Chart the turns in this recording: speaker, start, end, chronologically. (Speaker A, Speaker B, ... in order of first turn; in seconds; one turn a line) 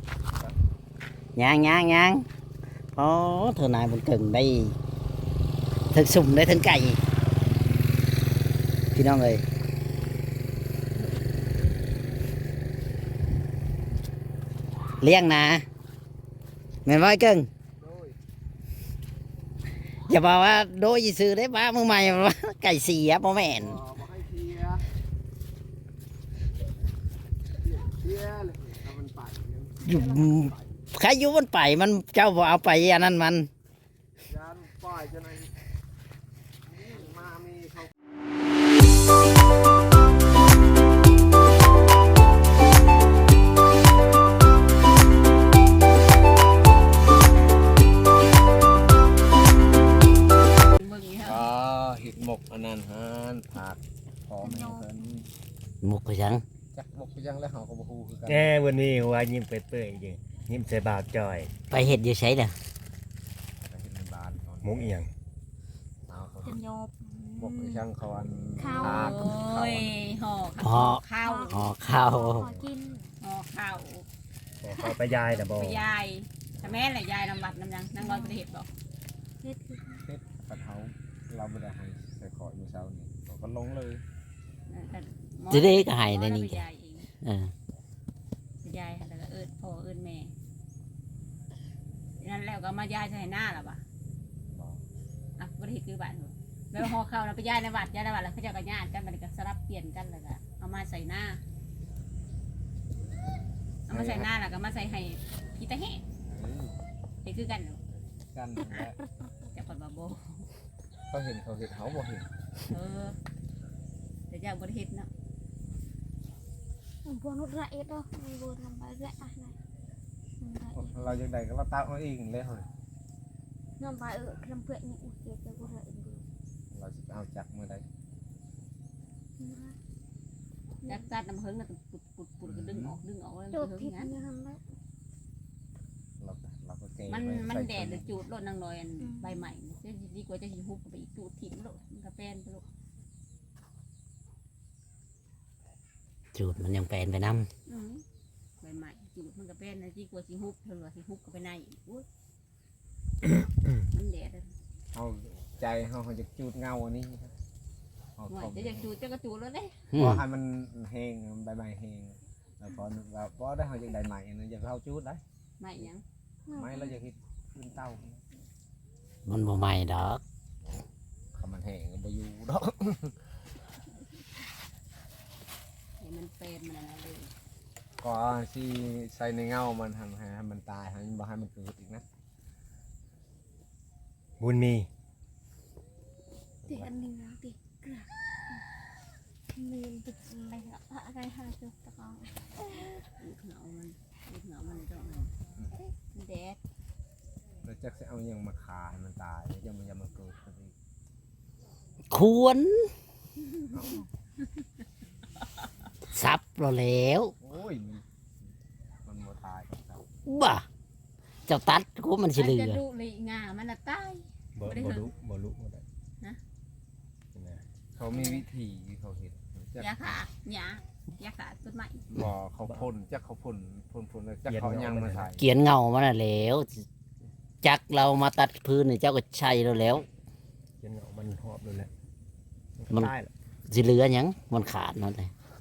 Speaker A: 1.4-2.2
Speaker A: 3.0-4.7
Speaker A: 5.9-7.0
Speaker A: 8.9-9.4
Speaker A: 15.0-15.6
Speaker A: 16.8-17.5
Speaker B: 17.8-18.2
Speaker A: 20.1-23.8
Speaker B: 23.5-24.8
Speaker B: 27.6-30.7
Speaker A: 29.8-33.5
Speaker B: 34.3-35.5
Speaker B: 36.7-37.9
Speaker C: 50.8-51.5
Speaker B: 51.2-55.3
Speaker D: 54.4-54.9
Speaker A: 55.8-56.4
Speaker B: 56.7-58.5
Speaker E: 58.3-61.5
Speaker A: 61.7-62.5
Speaker B: 63.6-65.0
Speaker E: 64.6-65.1
Speaker B: 66.1-66.6
Speaker D: 66.4-67.8
Speaker B: 67.4-69.9
Speaker D: 68.6-69.2
Speaker C: 68.8-71.6
Speaker A: 70.6-72.5
Speaker D: 71.2-73.1
Speaker B: 72.3-72.7
Speaker C: 73.2-74.0
Speaker E: 74.6-75.8
Speaker D: 74.7-75.0
Speaker C: 75.3-78.7
Speaker D: 78.0-78.4
Speaker D: 79.4-80.0
Speaker B: 80.0-84.0
Speaker C: 84.7-87.1
Speaker A: 85.5-86.6
Speaker A: 87.2-87.5
Speaker C: 88.6-90.3
Speaker C: 92.2-93.8
Speaker B: 94.5-94.8
Speaker C: 95.4-101.4
Speaker C: 103.9-106.0
Speaker B: 103.9-104.3
Speaker B: 106.3-106.8
Speaker C: 107.2-107.8
Speaker B: 108.3-109.0
Speaker C: 109.5-110.4
Speaker B: 111.1-112.3
Speaker C: 112.7-113.2
Speaker C: 114.3-115.1
Speaker D: 117.0-119.5
Speaker D: 120.4-121.1
Speaker B: 120.7-122.7
Speaker D: 123.8-126.2
Speaker B: 126.7-127.8
Speaker D: 129.4-129.7
Speaker D: 130.8-131.1
Speaker C: 130.8-134.1
Speaker B: 132.5-133.0
Speaker D: 133.5-134.6
Speaker B: 136.2-138.2
Speaker C: 137.1-142.6
Speaker D: 139.0-139.4
Speaker A: 146.3-147.5
Speaker C: 147.7-148.0
Speaker C: 148.6-152.1
Speaker C: 153.9-154.5
Speaker B: 154.9-157.3
Speaker B: 158.2-158.9
Speaker C: 158.3-159.8
Speaker A: 159.9-160.2
Speaker B: 160.0-165.2
Speaker C: 165.6-166.0
Speaker D: 166.5-167.0
Speaker B: 166.5-168.2
Speaker A: 169.2-170.2
Speaker B: 171.3-173.1
Speaker C: 176.0-177.3
Speaker B: 178.0-182.0
Speaker E: 184.4-184.9
Speaker D: 186.7-188.6
Speaker D: 189.5-193.0
Speaker C: 193.2-195.3
Speaker C: 196.1-196.6
Speaker B: 197.6-200.7
Speaker A: 202.1-202.9
Speaker B: 203.7-204.1
Speaker A: 206.1-207.3
Speaker B: 207.4-208.5
Speaker B: 209.0-210.0
Speaker A: 210.2-210.6
Speaker A: 211.5-212.8
Speaker C: 212.3-215.1
Speaker E: 214.6-215.8
Speaker E: 217.3-217.6
Speaker B: 218.0-220.2
Speaker C: 218.1-218.4
Speaker C: 219.8-222.0
Speaker B: 222.1-225.5
Speaker E: 224.4-225.3
Speaker A: 225.4-226.8
Speaker A: 227.6-230.1
Speaker E: 230.8-231.9
Speaker E: 232.8-233.3
Speaker A: 233.7-235.3